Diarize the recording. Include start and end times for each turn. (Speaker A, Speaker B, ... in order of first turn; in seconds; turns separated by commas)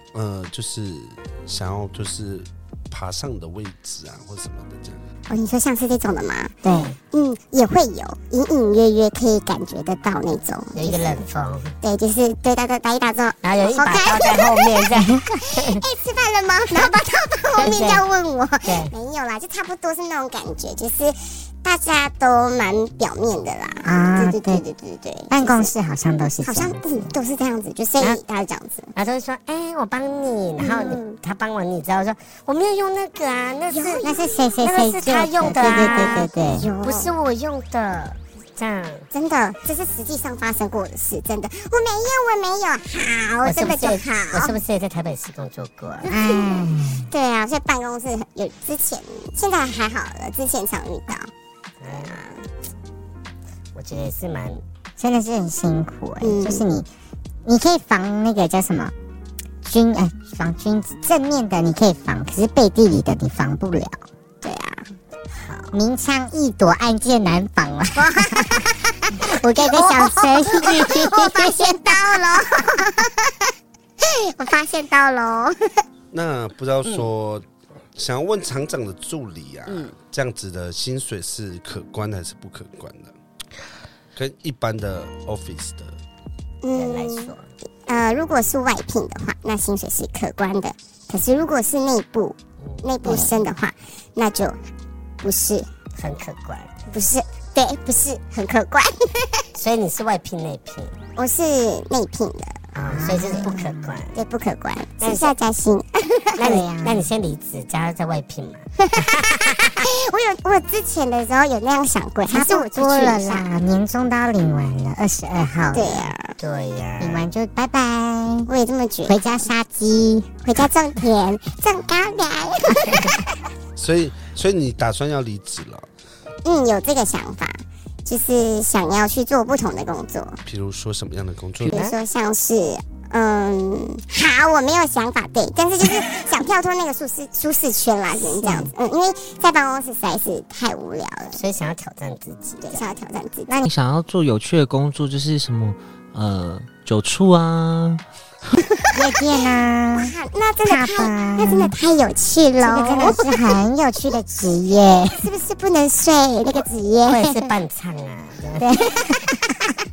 Speaker A: 0.1-5.0, Speaker B: 5.3-6.5, Speaker C: 6.6-6.9, Speaker D: 6.7-7.0, Speaker B: 7.1-11.1, Speaker D: 10.8-11.7, Speaker B: 11.8-14.7, Speaker D: 13.4-15.8, Speaker B: 15.6-25.7, Speaker D: 17.6-18.0, Speaker D: 18.6-18.9, Speaker C: 23.9-24.6, Speaker C: 25.3-27.1, Speaker B: 26.4-28.9, Speaker D: 28.9-34.0, Speaker B: 30.6-31.2, Speaker B: 33.7-34.5, Speaker C: 34.0-36.7, Speaker D: 34.6-39.1, Speaker B: 35.4-37.1, Speaker B: 39.1-44.6, Speaker D: 43.4-46.1, Speaker C: 46.0-47.1, Speaker B: 46.0-51.3, Speaker D: 51.8-52.2, Speaker B: 52.0-52.4, Speaker D: 53.8-54.6, Speaker C: 55.0-56.9, Speaker B: 56.2-56.6, Speaker C: 57.4-58.9, Speaker C: 59.6-64.0, Speaker B: 64.4-64.9, Speaker D: 65.3-65.8, Speaker C: 65.7-71.9, Speaker B: 67.9-68.7, Speaker B: 69.6-73.3, Speaker B: 74.0-75.6, Speaker A: 76.1-83.1, Speaker D: 79.7-79.9, Speaker A: 84.2-86.0, Speaker B: 86.6-87.3, Speaker D: 86.7-87.5, Speaker B: 87.9-94.6, Speaker D: 92.6-93.3, Speaker B: 95.2-95.7, Speaker D: 95.9-96.7, Speaker B: 96.9-99.5, Speaker D: 99.5-101.0, Speaker B: 101.2-103.4, Speaker D: 102.8-104.1, Speaker C: 102.9-104.0, Speaker B: 104.1-106.4, Speaker D: 105.0-105.3, Speaker D: 106.4-109.7, Speaker C: 106.4-107.1, Speaker B: 108.8-109.2, Speaker B: 109.8-113.5, Speaker C: 112.3-116.1, Speaker B: 115.7-116.3, Speaker D: 116.4-117.3, Speaker C: 117.0-118.5, Speaker B: 118.5-119.4, Speaker C: 119.1-120.3, Speaker B: 120.4-123.1, Speaker A: 123.8-125.9, Speaker B: 126.4-130.4, Speaker A: 130.4-131.8, Speaker D: 131.7-131.9, Speaker B: 131.7-141.4, Speaker D: 141.3-142.9, Speaker B: 142.6-143.5, Speaker E: 143.7-148.0, Speaker C: 148.9-150.1, Speaker B: 149.9-153.2, Speaker C: 150.7-151.7, Speaker C: 152.6-155.2, Speaker B: 155.1-157.5, Speaker D: 157.1-158.7, Speaker C: 158.6-159.2